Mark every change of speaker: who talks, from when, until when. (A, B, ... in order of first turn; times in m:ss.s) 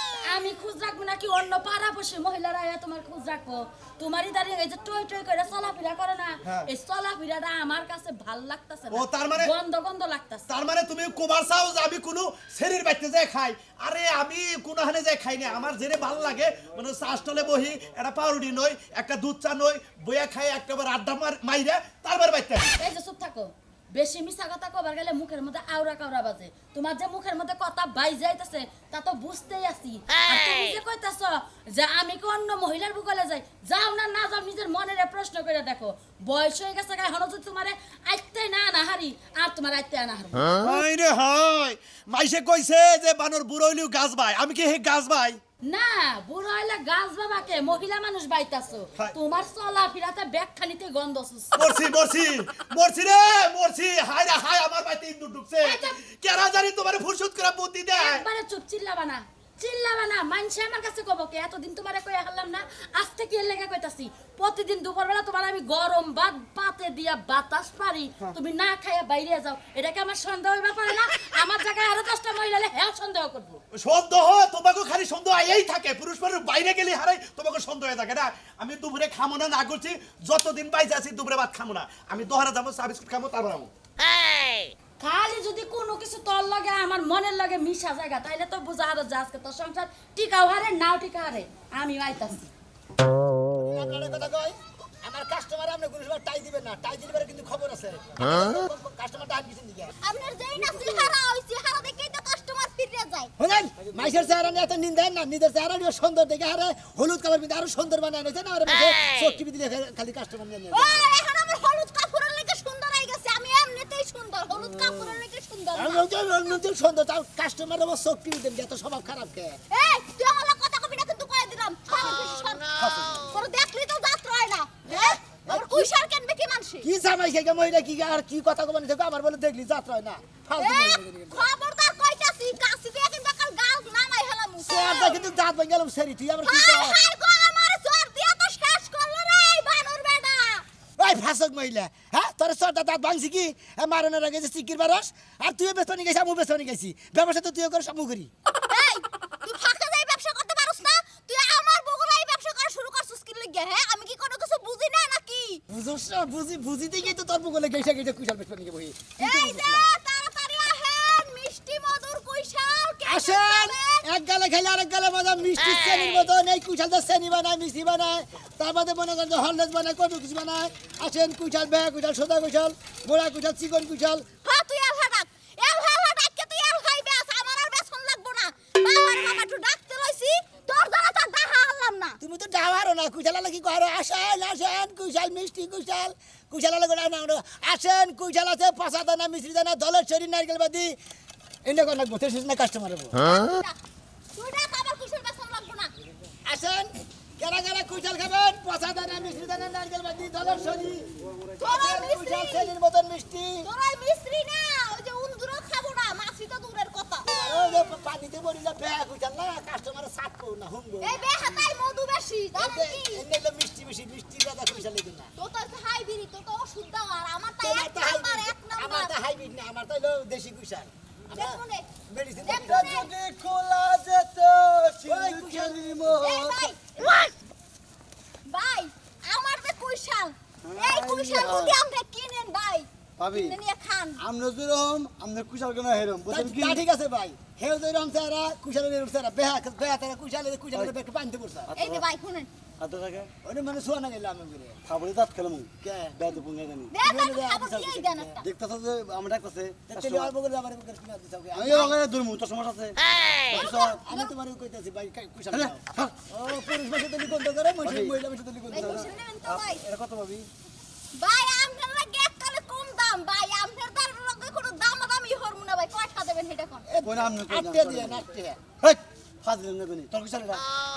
0:00.3-0:10.4 A
0:06.4-0:06.7 B
0:08.9-0:09.5 B
0:10.5-0:22.7 B
0:22.8-0:40.6 A
0:40.6-0:45.4 B
0:45.6-0:51.7 A
0:51.5-0:58.2 B
0:55.6-0:55.9 A
0:58.0-1:13.6 A
1:13.7-1:23.7 B
1:25.0-1:32.5 A
1:33.5-1:39.9 C
1:40.0-1:43.3 D
1:43.4-1:51.1 C
1:50.7-1:56.5 D
1:54.7-1:55.2 C
1:55.7-1:59.6 C
1:59.7-2:06.9 D
2:02.8-2:03.2 E
2:04.9-2:05.9 C
2:06.8-2:11.5 C
2:10.6-2:15.2 D
2:14.6-2:17.0 C
2:16.4-2:20.6 D
2:21.0-2:28.3 C
2:28.7-2:35.6 D
2:35.7-2:39.8 C
2:39.2-2:44.0 D
2:43.0-2:54.3 C
2:54.4-3:02.2 D
3:02.2-3:11.0 C
3:11.6-3:13.3 C
3:13.2-3:13.7 D
3:14.3-3:15.9 D
3:16.4-3:21.1 C
3:21.3-3:21.7 E
3:21.6-3:23.7 C
3:21.6-3:22.7 D
3:23.6-3:27.9 D
3:27.2-3:31.7 C
3:31.0-3:33.2 D
3:32.6-3:35.3 C
3:35.4-3:39.1 D
3:37.6-3:43.0 C
3:41.3-3:41.9 D
3:42.4-3:43.1 D
3:42.5-3:46.8 E
3:45.0-3:45.8 C
3:46.2-3:47.3 D
3:48.4-3:54.2 D
3:50.6-3:51.8 E
3:53.2-3:53.6 E
3:54.2-3:56.8 E
3:56.3-4:01.7 C
4:01.7-4:02.1 E
4:01.8-4:02.5 D
4:02.8-4:03.3 E
4:03.4-4:04.8 C
4:04.8-4:07.0 E
4:05.8-4:06.2 C
4:06.9-4:08.4 D
4:07.0-4:08.4 C
4:08.4-4:10.3 E
4:09.9-4:11.9 C
4:11.5-4:13.0 E
4:13.5-4:14.0 E
4:13.5-4:14.3 D
4:13.6-4:19.1 C
4:15.5-4:16.1 E
4:17.8-4:20.5 E
4:18.7-4:19.8 D
4:21.1-4:26.9 D
4:26.9-4:28.6 C
4:27.0-4:28.2 E
4:28.8-4:30.6 E